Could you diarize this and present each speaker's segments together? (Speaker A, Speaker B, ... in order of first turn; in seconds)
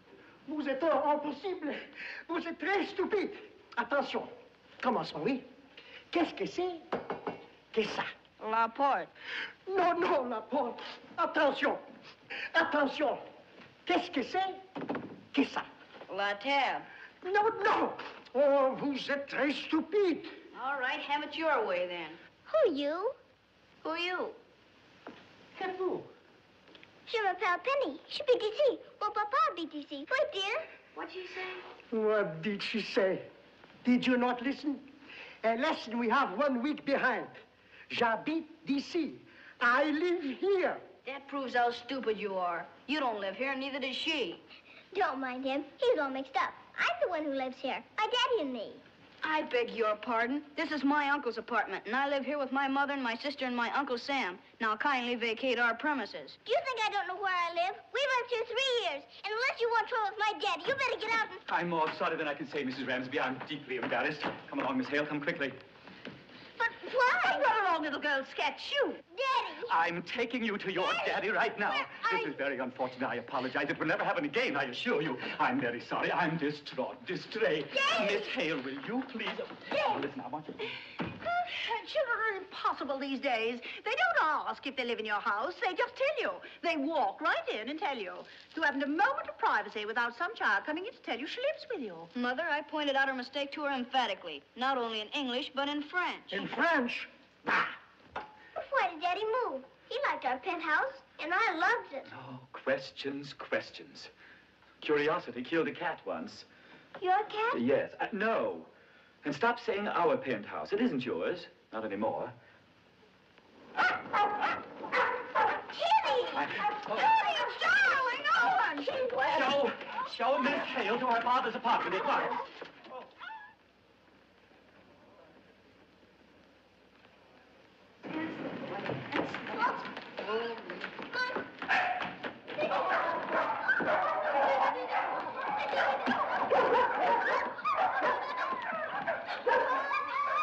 Speaker A: 0.5-5.5, 6.1-6.9, 7.7-8.1, 9.7-11.8, 12.5-13.2, 13.9-14.6, 15.3-15.7, 17.2-20.4, 31.9-33.3, 33.8-34.9, 35.4-37.4, 37.9-40.8, 96.3-97.6
Speaker B: 8.4-9.1, 16.1-16.9, 20.5-22.2, 23.9-24.1, 25.6-26.0, 31.0-31.6, 41.0-44.4, 49.2-56.4, 92.1-96.5
Speaker C: 22.5-23.2, 23.9-24.2, 27.1-30.7, 44.9-48.8, 56.5-61.4, 66.6-67.8, 69.1-69.7, 77.7-78.3, 79.7-80.0, 98.6-102.1, 107.0-107.6, 115.7-119.5, 131.1-131.4
Speaker D: 61.5-65.6, 69.7-80.8, 102.1-104.1, 104.8-106.5, 107.5-108.7, 109.2-112.3, 116.3-117.1, 119.3-122.4
Speaker E: 67.2-69.0, 72.0-72.3, 81.5-92.1